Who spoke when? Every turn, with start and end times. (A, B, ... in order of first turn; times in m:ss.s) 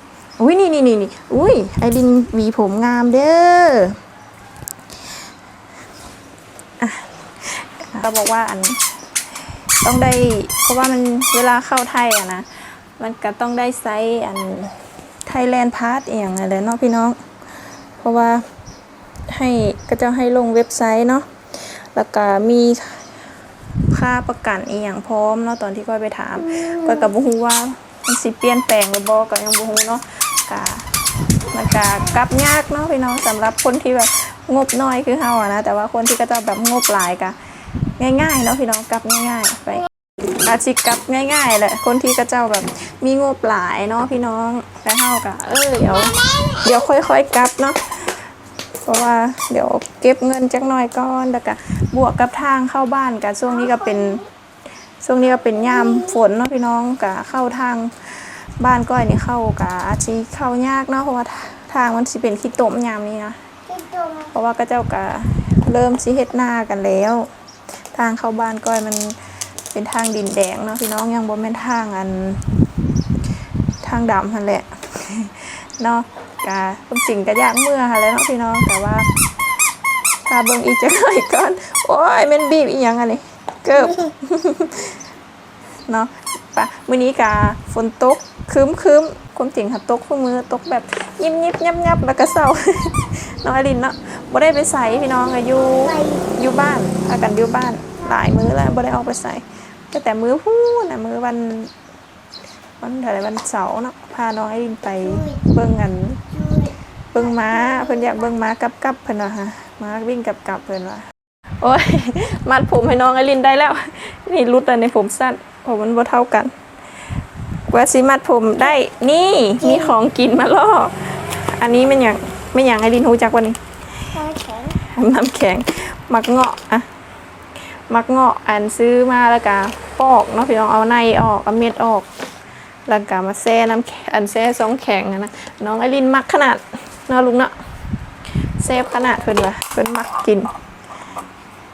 0:00.4-0:04.0 A
0:06.8-0:08.8 A
0:09.8-0:17.2 A
0:18.0-0:18.4 A
0:19.3-0:23.2 A
0:23.9-0:30.9 A
0:26.5-0:27.1 B
0:31.5-0:37.4 A
0:38.0-0:48.3 A
0:46.0-0:46.5 B
0:48.8-0:54.2 A
0:53.5-0:54.3 B
0:55.0-1:03.4 A
0:55.5-0:56.2 B
1:03.7-1:04.3 B
1:04.3-1:07.3 A
1:07.9-1:09.2 A
1:09.7-1:12.5 A
1:13.8-1:19.1 A
1:20.2-1:25.0 A
1:23.8-1:24.1 B
1:25.8-1:41.7 A
1:35.1-1:36.3 B
1:42.8-1:46.2 A
1:45.0-1:45.4 B
1:46.3-1:48.2 B
1:47.1-1:51.1 A
1:51.6-1:56.5 A
1:57.7-2:04.1 A
1:59.6-1:59.9 B
2:04.1-2:04.8 B
2:04.8-2:06.9 A
2:07.6-2:12.1 A
2:12.9-2:17.5 A
2:18.6-2:20.5 A